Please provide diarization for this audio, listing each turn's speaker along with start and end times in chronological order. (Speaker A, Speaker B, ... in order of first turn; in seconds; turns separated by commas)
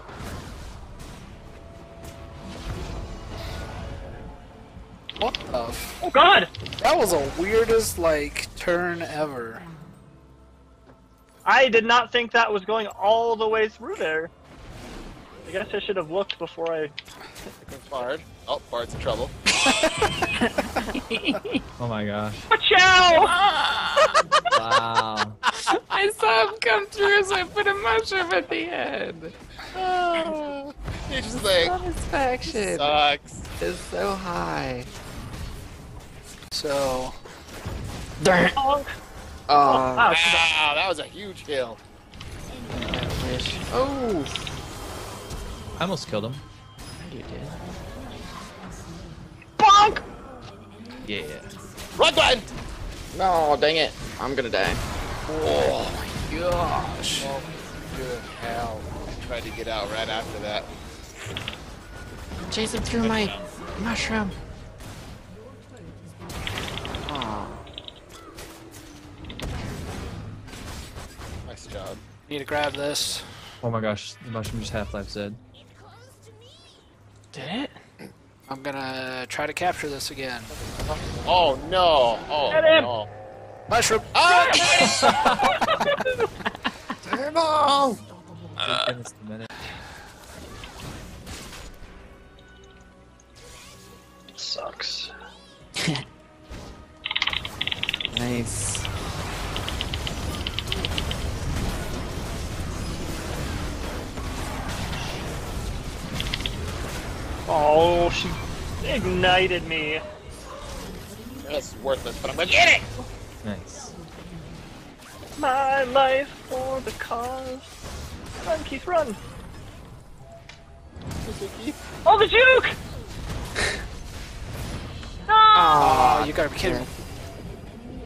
Speaker A: 5.2-6.0, Speaker B: 6.0-6.5, Speaker A: 6.8-9.7, Speaker B: 11.4-14.3, Speaker B: 15.4-16.9, Speaker C: 17.6-19.3, Speaker A: 19.6-20.3, Speaker D: 20.7-21.6, Speaker E: 21.8-22.4, Speaker B: 22.5-23.3, Speaker D: 23.1-24.1, Speaker E: 24.5-25.4, Speaker D: 25.6-29.3, Speaker C: 29.7-31.8, Speaker D: 31.6-33.0, Speaker C: 32.5-33.5, Speaker D: 33.6-34.9, Speaker A: 36.5-37.2, Speaker D: 38.2-38.5, Speaker B: 38.6-38.9, Speaker D: 39.5-40.2, Speaker B: 39.6-40.4, Speaker C: 40.1-41.8, Speaker D: 42.8-44.5, Speaker E: 45.8-46.4, Speaker D: 47.0-47.6, Speaker B: 49.6-50.0, Speaker E: 51.0-51.6, Speaker C: 52.0-52.5, Speaker D: 53.1-54.8, Speaker A: 55.3-57.4, Speaker C: 57.2-60.7, Speaker A: 57.9-58.6, Speaker D: 62.5-64.4, Speaker C: 63.0-63.4, Speaker D: 67.0-67.6, Speaker C: 71.4-72.0, Speaker A: 72.3-73.3, Speaker E: 73.6-75.4, Speaker D: 77.3-77.8, Speaker A: 78.5-80.5, Speaker C: 80.6-83.1, Speaker B: 82.5-82.9, Speaker A: 83.7-84.1, Speaker C: 84.1-85.2, Speaker E: 84.8-85.6, Speaker B: 85.8-86.2, Speaker C: 87.0-88.0, Speaker D: 88.6-89.0, Speaker E: 88.6-89.5, Speaker B: 94.3-95.1, Speaker D: 98.1-98.9, Speaker B: 107.5-110.0, Speaker C: 111.4-113.0, Speaker E: 113.4-113.9, Speaker B: 115.4-117.7, Speaker B: 118.4-119.2, Speaker C: 121.2-121.8, Speaker B: 122.0-122.8, Speaker B: 125.3-125.7, Speaker D: 125.5-126.9, Speaker A: 125.7-126.9